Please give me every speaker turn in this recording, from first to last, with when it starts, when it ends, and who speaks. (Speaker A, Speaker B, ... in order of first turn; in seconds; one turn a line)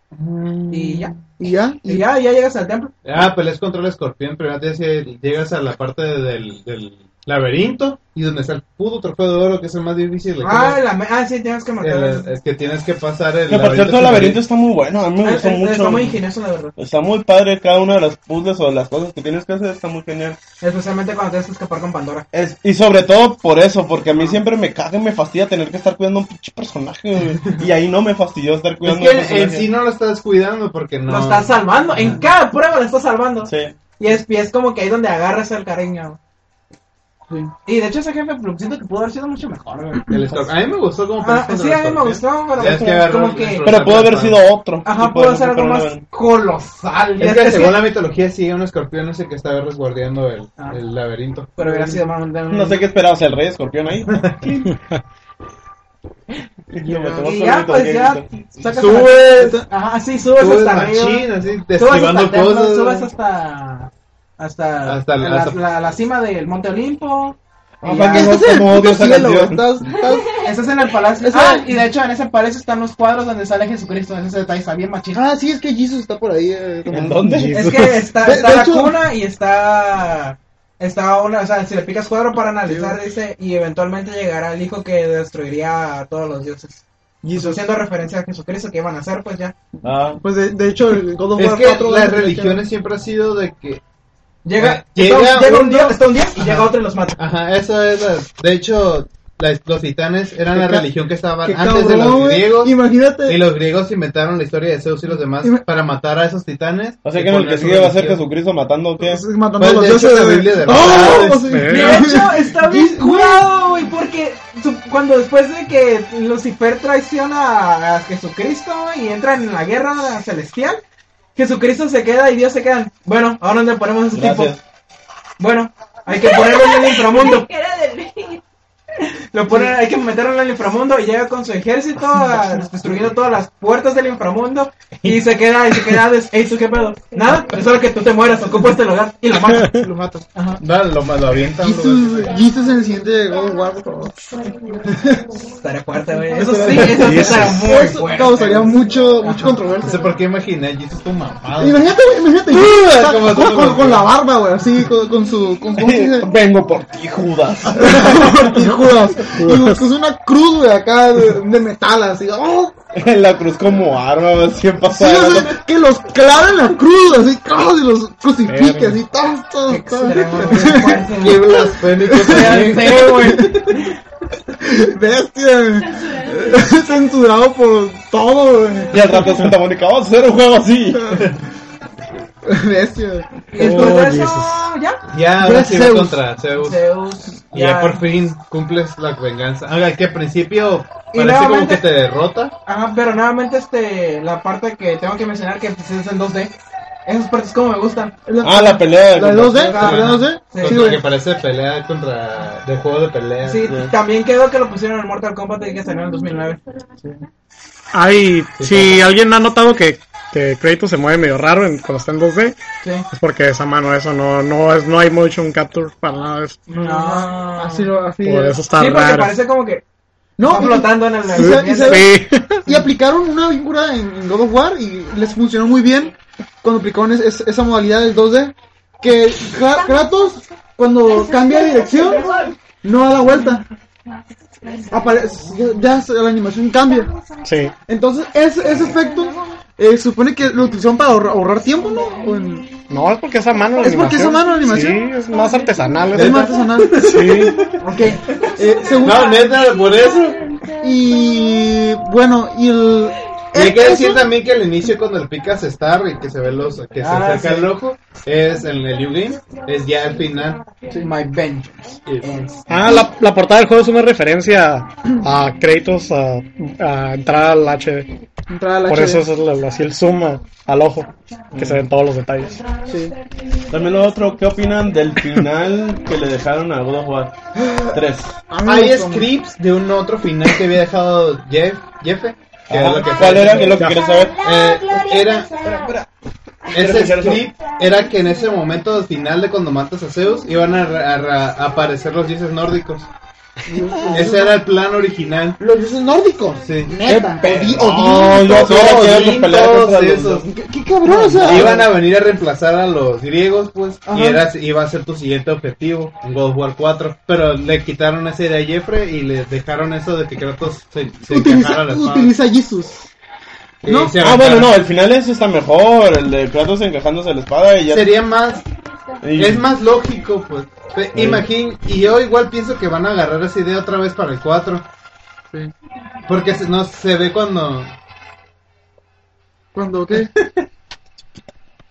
Speaker A: 0.2-2.0
Speaker B: 0.7-1.1
Speaker B: 1.9-2.9
Speaker C: 3.0-10.8
Speaker B: 10.4-12.3
Speaker C: 11.8-14.4
Speaker D: 13.5-16.2
Speaker B: 15.2-16.7
Speaker D: 16.8-20.4
Speaker B: 20.6-22.3
Speaker D: 22.3-29.7
Speaker C: 28.8-32.2
Speaker B: 31.1-36.2
Speaker D: 33.4-33.8
Speaker B: 37.7-40.1
Speaker C: 40.1-44.4
Speaker B: 41.2-43.8
Speaker D: 42.7-43.0
Speaker D: 43.6-46.0
Speaker B: 44.9-47.9
Speaker C: 47.2-51.6
Speaker B: 51.6-52.9
Speaker D: 52.5-54.7
Speaker C: 54.1-54.5
Speaker D: 56.7-58.3
Speaker B: 56.8-68.4
Speaker C: 58.8-59.2
Speaker A: 59.2-59.6
Speaker C: 60.4-63.1
Speaker C: 64.9-65.6
Speaker D: 67.8-69.8
Speaker A: 67.9-70.3
Speaker E: 69.8-70.5
Speaker B: 70.4-75.2
Speaker A: 71.2-71.8
Speaker A: 75.1-77.2
Speaker D: 76.9-77.6
Speaker F: 77.2-78.1
Speaker B: 77.5-89.5
Speaker A: 78.2-79.0
Speaker A: 82.7-83.0
Speaker A: 87.2-87.6
Speaker D: 89.8-90.2
Speaker A: 90.2-92.6
Speaker C: 91.4-93.8
Speaker B: 94.5-97.2
Speaker C: 94.6-108.2
Speaker A: 100.5-100.9
Speaker A: 101.4-103.4
Speaker D: 107.0-109.2
Speaker A: 109.0-113.5
Speaker C: 109.6-111.5
Speaker F: 111.5-112.0
Speaker B: 111.7-120.8
Speaker B: 121.3-124.6
Speaker D: 124.1-124.6
Speaker B: 125.4-127.5
Speaker E: 126.1-128.4
Speaker B: 129.3-140.6
Speaker E: 136.9-137.4
Speaker C: 140.6-142.4
Speaker A: 141.6-145.3
Speaker E: 144.3-145.2
Speaker B: 145.4-149.7
Speaker E: 146.1-146.6
Speaker A: 146.4-150.1
Speaker F: 147.0-147.6
Speaker C: 149.8-151.9
Speaker A: 151.6-156.3
Speaker C: 152.5-154.1
Speaker D: 155.8-158.5
Speaker A: 157.8-162.8
Speaker F: 159.3-159.8
Speaker D: 162.9-165.6
Speaker A: 164.9-173.6
Speaker F: 168.5-169.0
Speaker B: 169.7-174.0
Speaker C: 171.2-173.4
Speaker A: 174.6-179.3
Speaker E: 176.0-176.7
Speaker D: 178.9-181.2
Speaker A: 180.9-181.2
Speaker C: 181.1-181.4
Speaker A: 182.4-184.1
Speaker B: 183.5-185.0
Speaker F: 183.6-184.6
Speaker C: 185.1-186.8
Speaker A: 185.4-186.2
Speaker B: 186.5-188.0
Speaker C: 187.5-192.5
Speaker B: 191.1-191.8
Speaker B: 192.7-196.5
Speaker B: 197.1-198.2
Speaker A: 198.3-201.0
Speaker D: 198.4-200.0
Speaker B: 199.6-201.0
Speaker C: 199.8-203.7
Speaker B: 203.4-206.6
Speaker D: 203.7-203.9
Speaker F: 207.9-212.6
Speaker C: 208.6-209.1
Speaker F: 213.1-216.6
Speaker A: 216.7-218.6
Speaker B: 216.8-217.9
Speaker F: 218.2-219.3
Speaker B: 218.7-219.8
Speaker A: 220.4-233.7
Speaker B: 220.4-222.1
Speaker F: 221.3-222.6
Speaker E: 229.8-230.4
Speaker E: 231.1-232.6
Speaker E: 234.6-235.5
Speaker A: 234.9-237.1
Speaker F: 237.4-237.7
Speaker A: 237.9-242.7
Speaker F: 242.9-247.7
Speaker A: 243.8-245.0
Speaker E: 245.3-246.1
Speaker A: 246.1-247.1
Speaker C: 246.1-247.7
Speaker A: 247.7-249.3
Speaker B: 247.8-248.5
Speaker E: 248.4-250.8
Speaker C: 249.0-250.4
Speaker A: 250.8-254.3
Speaker C: 253.5-260.7
Speaker B: 257.0-257.7
Speaker B: 261.0-262.6
Speaker C: 262.1-262.4
Speaker F: 262.7-268.1
Speaker A: 268.5-269.2
Speaker F: 268.9-272.6
Speaker D: 271.5-271.8
Speaker A: 272.9-273.1
Speaker D: 273.7-277.4
Speaker A: 277.6-278.0
Speaker D: 277.9-278.4
Speaker A: 278.5-279.3
Speaker C: 278.6-285.7
Speaker D: 282.7-284.4
Speaker E: 283.8-286.0
Speaker B: 285.7-286.0
Speaker C: 286.7-293.1
Speaker D: 286.7-287.5
Speaker A: 293.7-294.6
Speaker C: 294.1-295.6
Speaker A: 295.6-299.2
Speaker C: 296.6-297.8
Speaker D: 297.1-300.5
Speaker C: 298.4-300.5
Speaker A: 300.5-301.9
Speaker D: 301.1-301.8
Speaker C: 301.4-312.3
Speaker A: 304.1-304.4
Speaker A: 311.3-313.1
Speaker C: 313.8-314.7
Speaker A: 313.9-314.1
Speaker D: 314.2-318.1
Speaker C: 317.9-318.6
Speaker D: 319.2-319.7
Speaker C: 319.4-324.9
Speaker D: 321.1-321.4
Speaker C: 326.3-327.9
Speaker A: 329.8-330.3